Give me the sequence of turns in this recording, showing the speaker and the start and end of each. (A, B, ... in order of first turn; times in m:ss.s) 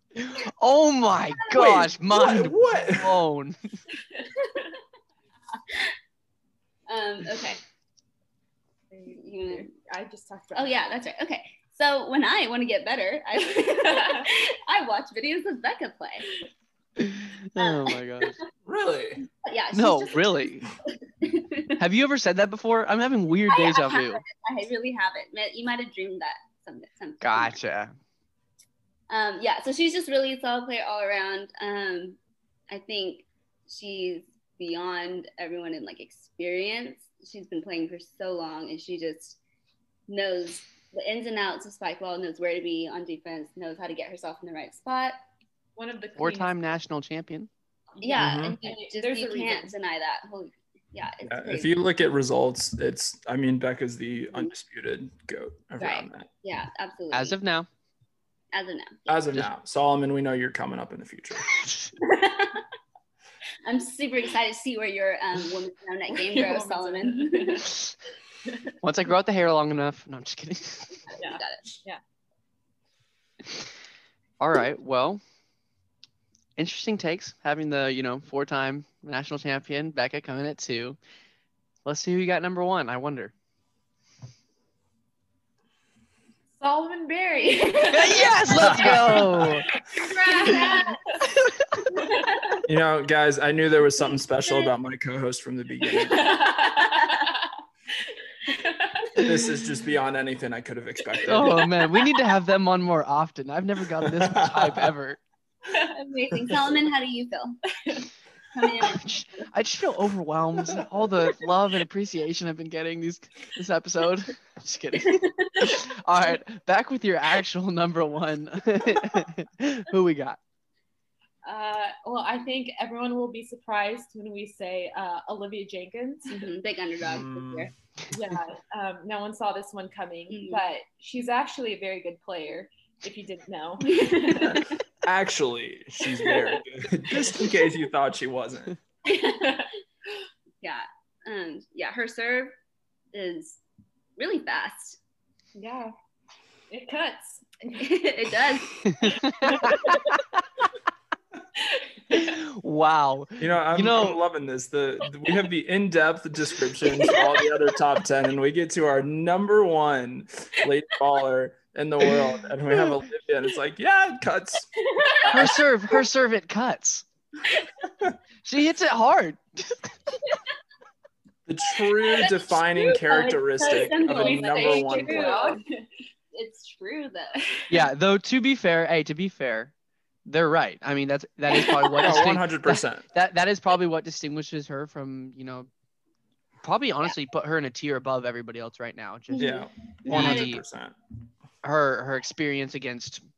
0:00.2-0:03.6 A
0:01.6-0:03.2 B
0:04.1-0:04.4 C
0:06.9-0:07.6 D
0:08.9-0:10.8 C
0:09.1-0:09.7 D
0:10.5-0:16.3 D
0:13.9-0:14.3 C
0:17.0-0:18.4 A
0:17.6-0:18.4 D
0:18.6-0:19.2 B
0:19.4-0:21.8 D
0:19.7-0:20.7 A
0:21.8-0:24.2 A
0:23.5-0:27.6 D
0:27.2-0:27.9 A
0:29.1-0:32.2 D
0:32.7-0:39.4 D
0:40.1-0:45.2 D
0:45.8-0:46.6 C
0:46.2-0:47.5 A
0:48.0-0:49.7 C
0:48.0-0:51.7 D
0:48.2-0:48.6 B
0:51.2-0:56.3 B
0:55.8-0:57.4 D
0:57.1-0:57.7 A
0:58.5-0:59.2 D
0:59.1-1:01.6 B
1:02.2-1:02.5 D
1:03.6-1:07.7 D
1:06.1-1:07.8 C
1:08.8-1:11.0 A
1:11.1-1:11.7 D
1:11.2-1:12.0 C
1:14.4-1:15.2 A
1:16.6-1:21.0 A
1:21.8-1:23.3 A
1:26.6-1:31.2 C
1:27.5-1:28.2 D
1:27.9-1:29.7 A
1:28.6-1:29.6 B
1:30.4-1:30.7 D
1:30.4-1:31.9 A
1:31.9-1:32.6 C
1:32.7-1:36.4 B
1:36.0-1:37.5 C
1:38.4-1:39.3 C
1:39.2-1:41.7 B
1:41.3-1:45.2 A
1:41.3-1:42.2 C
1:44.0-1:44.9 B
1:45.8-1:47.6 D
1:48.5-1:49.5 D
1:48.8-2:00.4 A
2:01.4-2:06.5 C
2:06.3-2:07.7 D
2:07.0-2:07.7 B
2:08.1-2:14.8 C
2:10.3-2:10.6 D
2:13.9-2:14.6 D
2:14.4-2:18.8 B
2:16.2-2:16.6 C
2:17.1-2:17.5 C
2:19.1-2:19.6 D
2:19.4-2:19.7 C
2:20.6-2:22.6 D
2:23.1-2:23.6 D
2:24.2-2:25.0 D
2:25.6-2:25.9 C
2:26.7-2:28.0 C
2:27.8-2:29.2 D
2:28.9-2:30.0 A
2:29.2-2:30.2 C
2:31.6-2:32.3 C
2:32.1-2:34.2 A
2:33.4-2:45.6 B
2:45.0-2:45.4 D
2:45.3-2:47.0 A
2:48.4-2:50.0 A
2:51.5-2:55.5 B
2:52.1-2:55.6 D
2:54.1-2:55.9 C
2:56.3-2:57.6 D
2:57.7-2:59.7 A
3:00.3-3:05.7 A
3:02.0-3:03.0 B
3:06.6-3:10.6 A
3:09.4-3:10.5 D
3:09.4-3:11.0 B
3:11.6-3:13.2 A